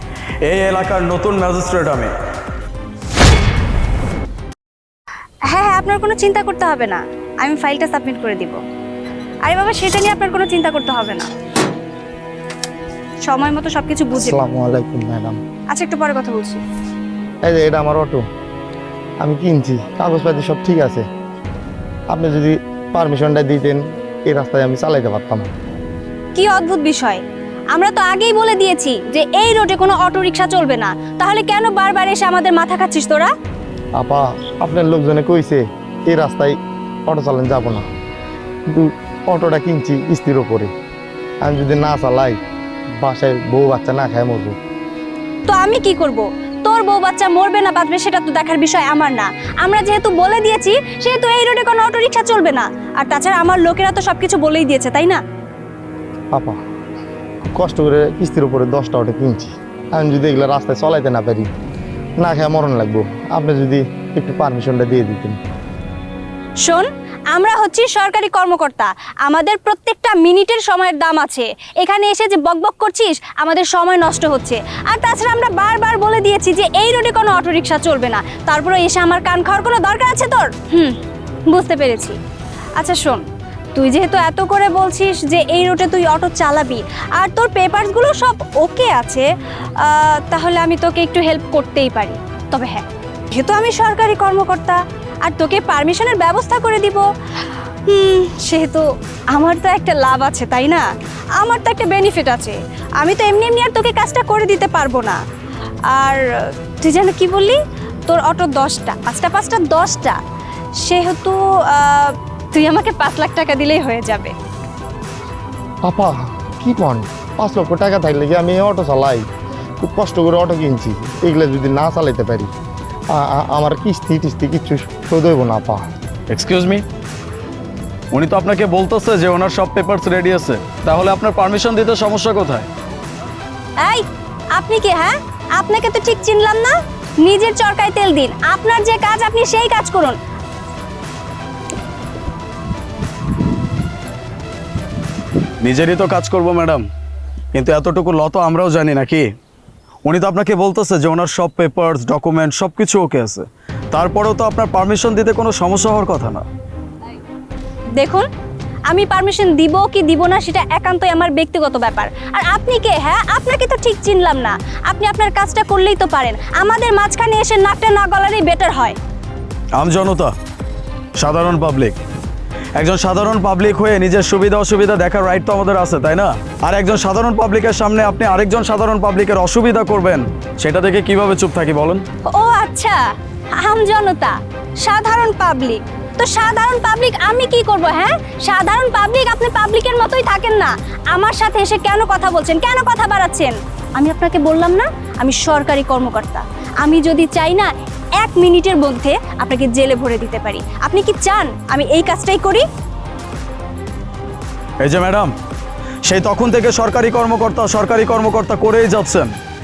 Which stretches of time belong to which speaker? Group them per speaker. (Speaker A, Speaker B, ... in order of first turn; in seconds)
Speaker A: 0.4-2.2, 126.3-126.8, 128.1-132.7, 145.6-146.8, 147.5-149.3, 150.1-156.4, 169.8-170.3, 171.2-172.0, 172.8-182.0, 204.8-205.3, 206.0-209.3
Speaker B: 5.5-8.6, 9.4-11.3, 13.2-14.4, 15.7-16.6, 26.4-33.3, 45.5-55.2, 66.6-81.0, 81.5-82.2, 82.8-97.1, 97.9-105.2, 105.9-110.2, 110.8-114.3, 133.8-140.2, 158.0-158.3, 158.9-169.0, 182.2-202.7
Speaker C: 14.2-15.4, 17.4-18.2, 19.2-21.0, 22.1-25.5, 34.0-36.5, 37.1-37.8, 38.7-40.7, 41.4-42.4, 43.0-44.6, 57.5-61.5, 62.2-65.4, 115.8-119.2, 119.8-122.5, 123.1-125.8